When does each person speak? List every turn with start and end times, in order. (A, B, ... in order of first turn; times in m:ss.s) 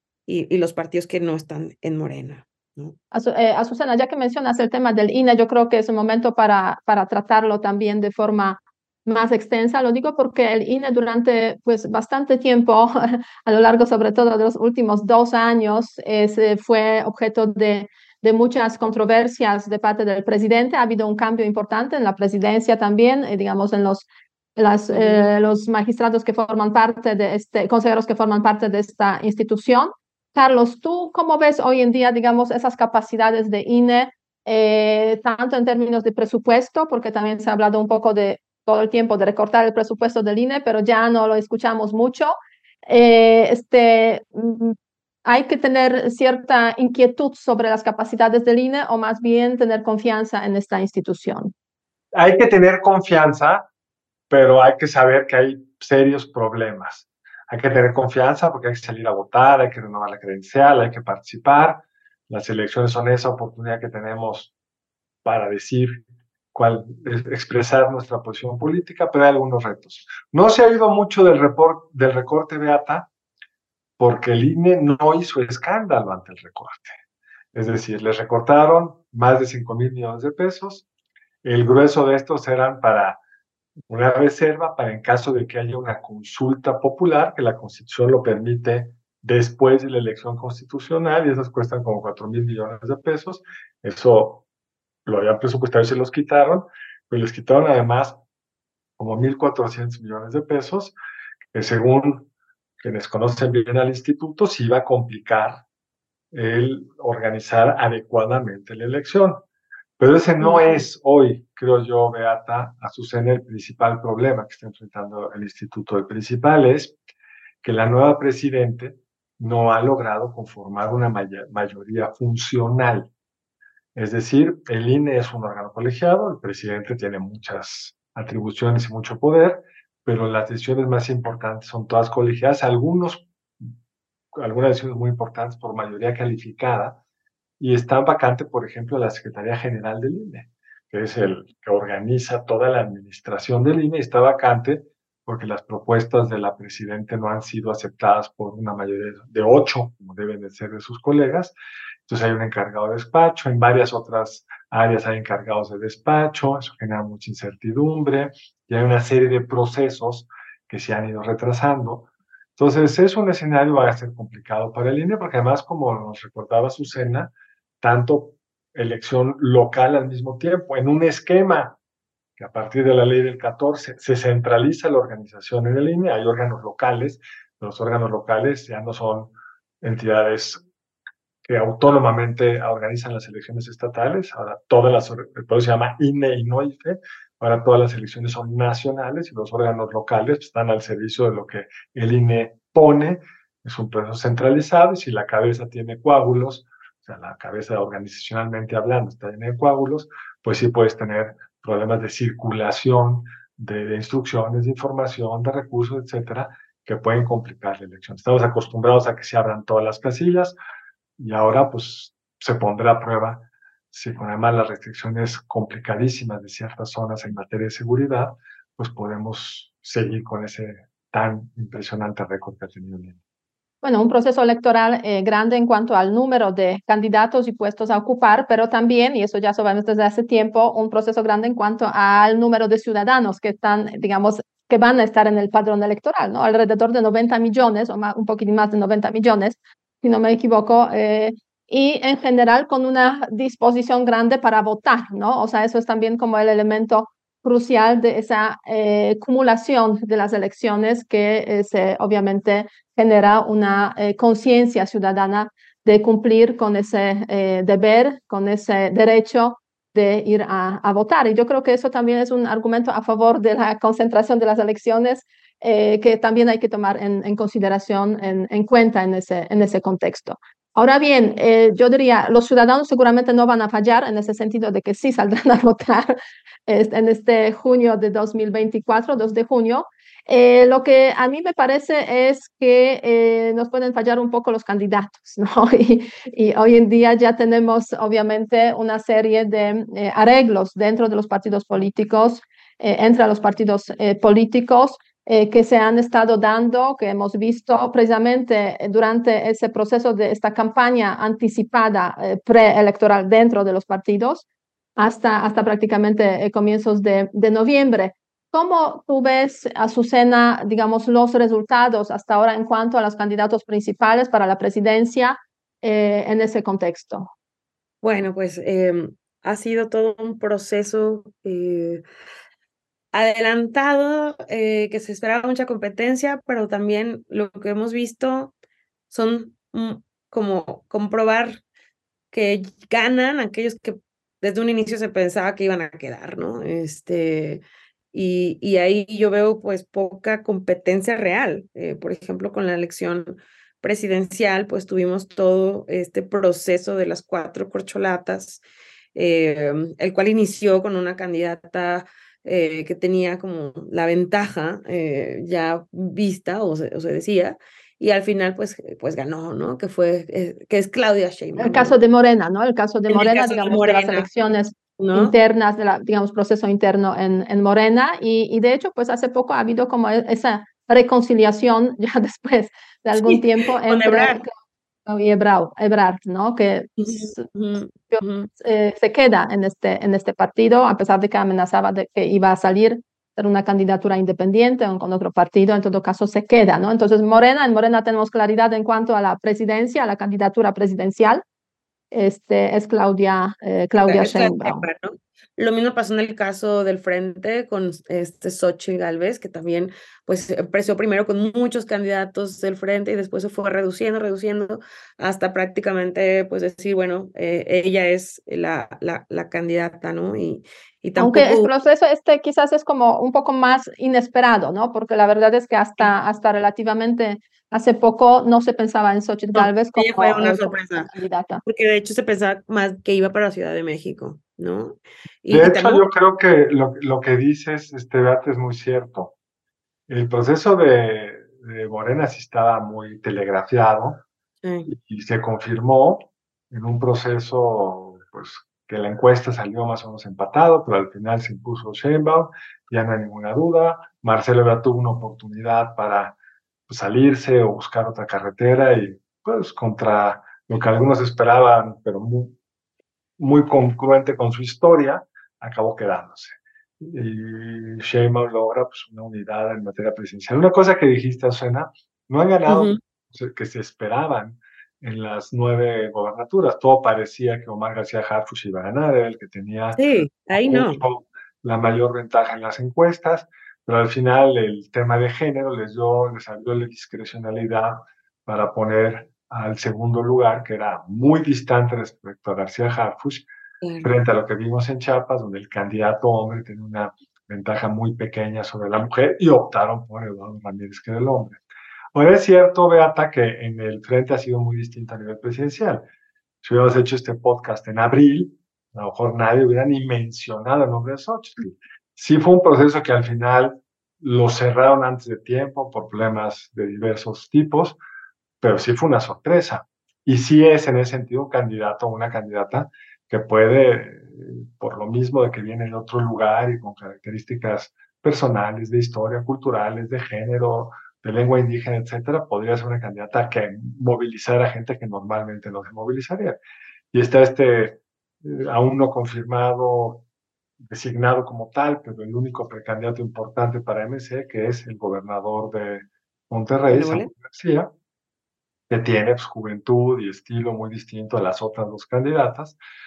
0:00.3-0:03.0 A
0:03.1-0:42.4 B
0:24.9-0:25.3 A
0:42.9-0:51.5 B
0:52.1-0:53.7 C
0:54.3-1:04.5 C
1:05.2-1:06.0 C
1:06.5-1:13.1 C
1:14.0-1:17.0 C
1:17.5-1:20.9 C
1:21.4-1:23.2 C
1:23.9-1:34.4 C
1:35.1-1:38.2 C
1:39.0-1:41.0 C
1:41.5-1:42.3 C
1:42.8-1:45.6 C
1:46.3-1:49.4 C
1:50.0-1:57.0 C
1:57.6-2:03.1 C
2:04.0-2:13.7 C
2:14.4-2:17.0 C
2:17.6-2:51.8 C
2:52.4-3:00.6 C
3:01.4-3:30.6 C
3:31.2-3:43.2 C
3:43.8-4:36.2 B
4:36.7-5:04.4 B
5:05.0-5:17.3 B
5:18.0-5:22.0 A
5:23.1-5:28.5 A
5:29.1-5:31.6 A
5:32.3-5:48.6 A
5:49.2-6:02.0 A
6:01.6-6:14.5 B
6:03.1-6:04.3 A
6:05.0-6:05.3 A
6:13.2-6:14.4 A
6:15.1-6:17.4 B
6:17.0-6:18.5 A
6:18.1-6:31.4 B
6:32.1-6:34.9 B
6:34.1-6:51.7 A
6:51.2-7:01.6 B
6:59.6-7:01.1 A
7:01.6-7:06.0 A
7:05.5-7:09.4 C
7:10.1-7:14.2 C
7:14.9-7:26.4 C
7:26.9-7:32.6 C
7:33.4-7:50.0 C
7:42.7-7:43.0 A
7:50.0-7:51.0 A
7:50.6-8:03.5 C
8:03.8-8:04.1 A
8:04.0-8:11.6 C
8:12.1-8:16.1 C
8:16.6-8:28.0 C
8:28.6-8:46.6 C
8:47.1-8:50.3 C
8:50.8-8:57.9 C
8:56.9-8:57.3 A
8:58.9-9:02.8 C